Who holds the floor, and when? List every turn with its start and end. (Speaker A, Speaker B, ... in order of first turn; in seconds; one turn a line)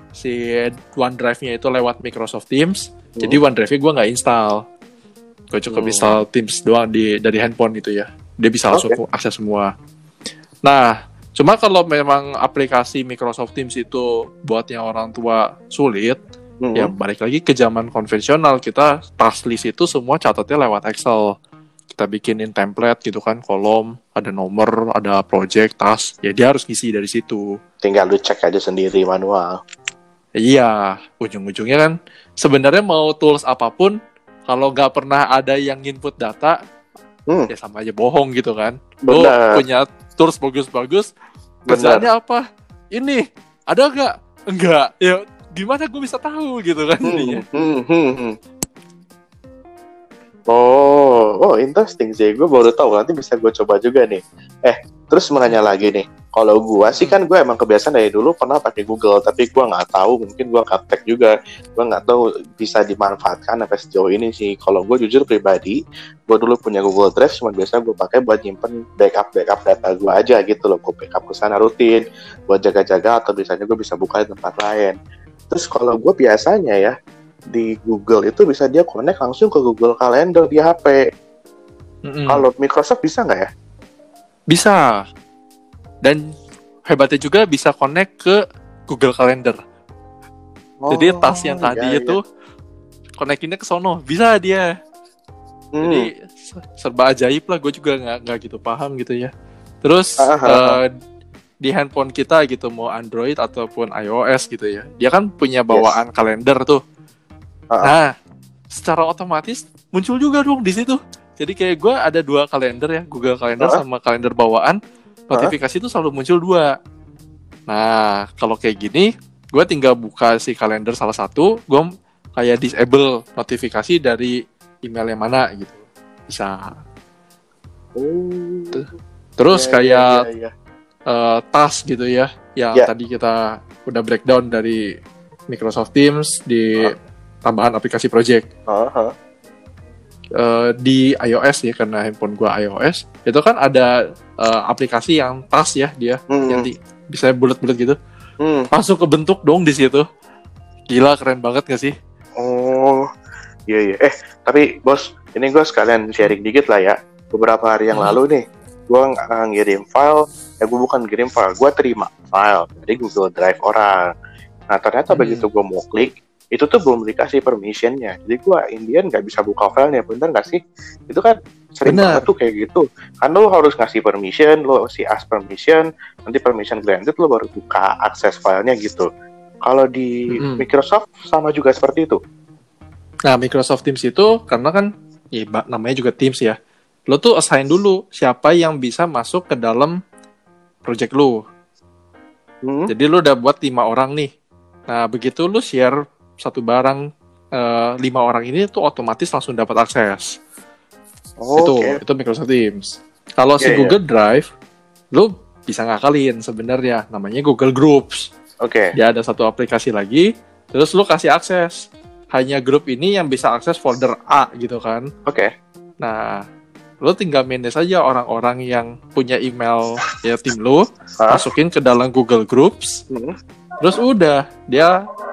Speaker A: 0.1-4.6
Speaker A: 5.5-9.7
Speaker B: 5.7-6.2
Speaker B: 8.7-9.0
Speaker A: 10.7-16.2
Speaker B: 16.6-16.9
Speaker A: 16.8-21.3
Speaker A: 21.9-27.4
Speaker B: 27.8-29.6
Speaker A: 30.4-34.0
Speaker A: 34.5-36.6
Speaker A: 37.5-41.1
Speaker B: 39.1-39.6
Speaker B: 41.7-42.1
Speaker A: 41.7-47.4
Speaker B: 47.1-48.4
Speaker B: 50.5-75.0
Speaker B: 75.5-77.0
Speaker B: 77.5-81.0
Speaker A: 82.1-82.5
Speaker B: 82.3-83.5
Speaker A: 84.5-84.8
Speaker A: 86.9-89.6
Speaker B: 90.8-92.2
Speaker A: 90.9-92.2
Speaker A: 93.2-94.7
Speaker B: 95.8-96.1
Speaker A: 95.8-99.3
Speaker A: 99.8-100.8
Speaker B: 100.2-100.8
Speaker A: 101.6-106.8
Speaker B: 105.7-106.0
Speaker A: 107.8-108.1
Speaker A: 108.7-114.8
Speaker A: 115.3-116.7
Speaker A: 117.7-126.6
Speaker B: 128.0-128.8
Speaker A: 129.4-130.2
Speaker B: 129.5-130.5
Speaker A: 131.1-134.8
Speaker A: 135.5-136.9
Speaker A: 137.5-138.4
Speaker B: 138.7-139.1
Speaker A: 140.4-143.9
Speaker A: 144.4-148.0
Speaker B: 146.3-146.7
Speaker B: 148.4-148.7
Speaker A: 148.7-150.1
Speaker A: 150.9-151.9
Speaker B: 152.4-153.0
Speaker B: 153.7-163.9
Speaker A: 157.9-158.2
Speaker B: 164.7-170.6
Speaker A: 165.1-165.5
Speaker B: 171.1-179.1
Speaker A: 171.9-172.2
Speaker B: 179.7-182.2
Speaker A: 180.3-180.6
Speaker A: 183.3-186.6
Speaker A: 187.1-190.0
Speaker A: 190.9-191.4
Speaker B: 192.7-192.9
Speaker A: 192.9-194.3
Speaker A: 194.9-197.0
Speaker A: 197.6-200.3
Speaker B: 201.4-202.0
Speaker A: 201.6-204.5
Speaker B: 203.6-204.0
Speaker A: 205.1-208.3
Speaker B: 208.6-208.9
Speaker A: 209.0-215.1
Speaker A: 216.0-216.4
Speaker A: 217.0-223.0
Speaker B: 221.2-221.4
Speaker A: 223.8-224.9